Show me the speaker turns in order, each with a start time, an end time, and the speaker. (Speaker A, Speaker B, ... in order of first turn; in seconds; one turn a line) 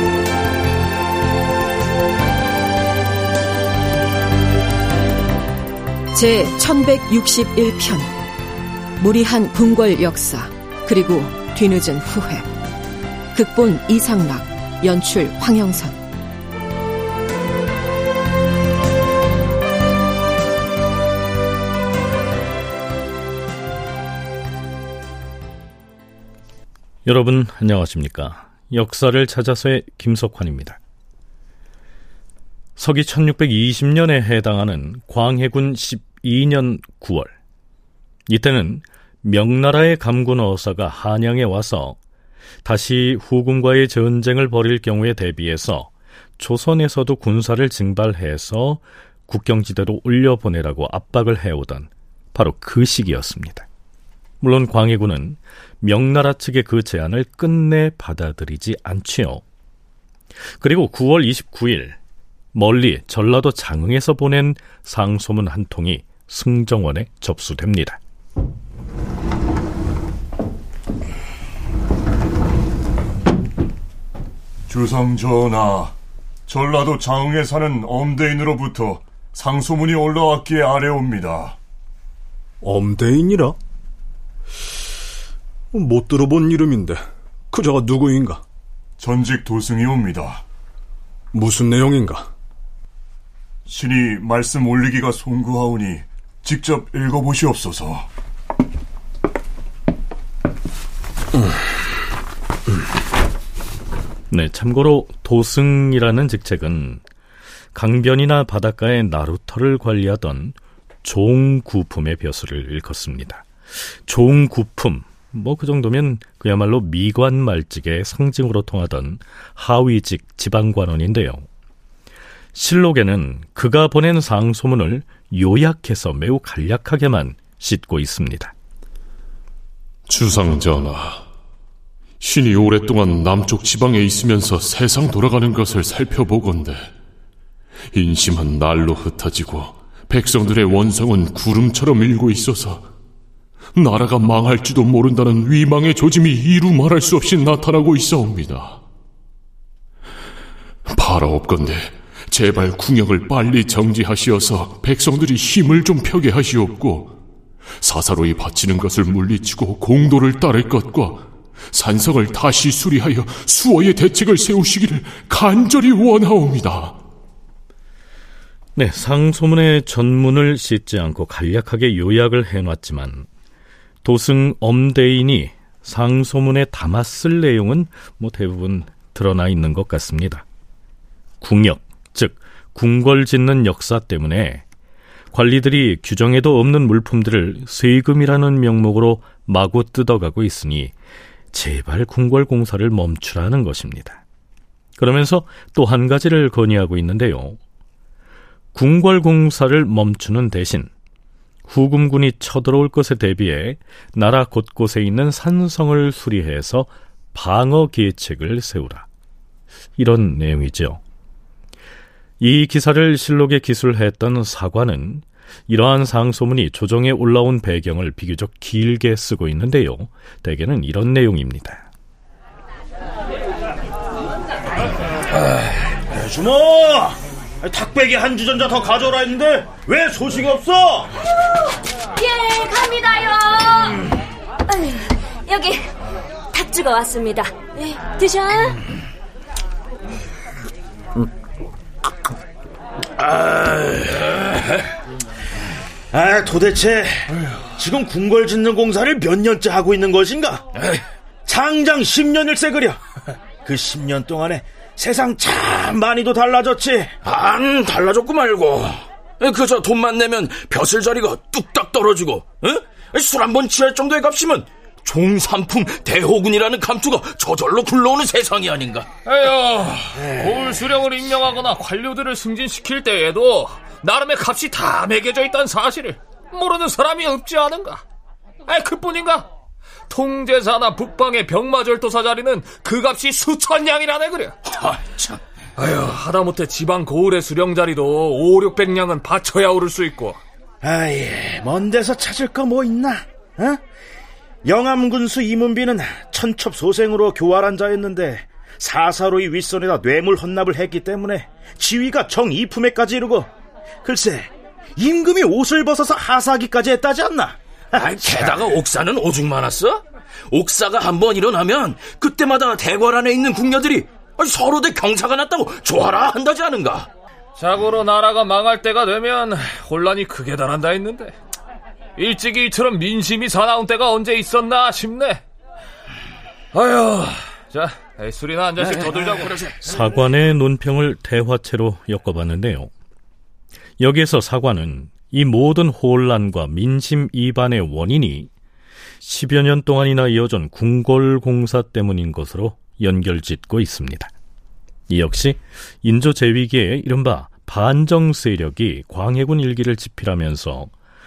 Speaker A: 6.1-8.1
Speaker A: 9.0-12.5
Speaker A: 13.3-16.0
Speaker B: 27.1-30.8
Speaker B: 32.8-37.3
Speaker B: 38.3-42.0
Speaker B: 42.6-53.6
Speaker B: 54.4-59.4
Speaker B: 60.6-62.0
Speaker B: 62.5-68.0
Speaker C: 74.7-75.9
Speaker C: 76.5-81.6
Speaker D: 82.6-83.5
Speaker D: 85.7-87.0
Speaker D: 87.5-88.4
Speaker C: 89.0-90.4
Speaker D: 91.3-92.3
Speaker C: 93.7-98.1
Speaker B: 104.3-107.0
Speaker B: 107.7-113.5
Speaker B: 114.0-121.4
Speaker B: 122.5-128.5
Speaker E: 130.1-131.2
Speaker E: 132.2-136.9
Speaker E: 137.9-142.9
Speaker E: 143.8-148.8
Speaker E: 150.9-157.2
Speaker E: 157.8-167.0
Speaker B: 168.8-173.3
Speaker B: 174.0-180.4
Speaker B: 181.4-184.6
Speaker B: 185.3-190.9
Speaker B: 191.5-194.2
Speaker B: 195.0-197.6
Speaker B: 198.7-200.9
Speaker B: 201.7-209.1
Speaker B: 210.0-211.0
Speaker B: 212.4-221.8
Speaker F: 226.1-231.1
Speaker G: 232.2-233.9
Speaker G: 235.5-235.8
Speaker G: 236.5-238.7
Speaker H: 243.5-244.0
Speaker F: 246.1-250.6
Speaker H: 250.7-251.0
Speaker F: 251.4-253.0
Speaker F: 253.6-257.1
Speaker H: 257.2-269.1
Speaker I: 269.2-278.0
Speaker I: 278.6-279.5
Speaker I: 280.1-284.6
Speaker H: 284.8-285.4
Speaker I: 285.8-290.4
Speaker F: 290.8-293.8
Speaker F: 294.6-303.5
Speaker F: 304.0-307.6
Speaker H: 308.0-317.1
Speaker F: 308.2-308.5
Speaker I: 317.6-321.3
Speaker I: 322.2-325.4
Speaker I: 326.7-329.6
Speaker H: 328.8-329.8
Speaker B: 329.8-332.9
Speaker B: 334.0-338.5
Speaker B: 339.2-344.3
Speaker B: 345.1-350.9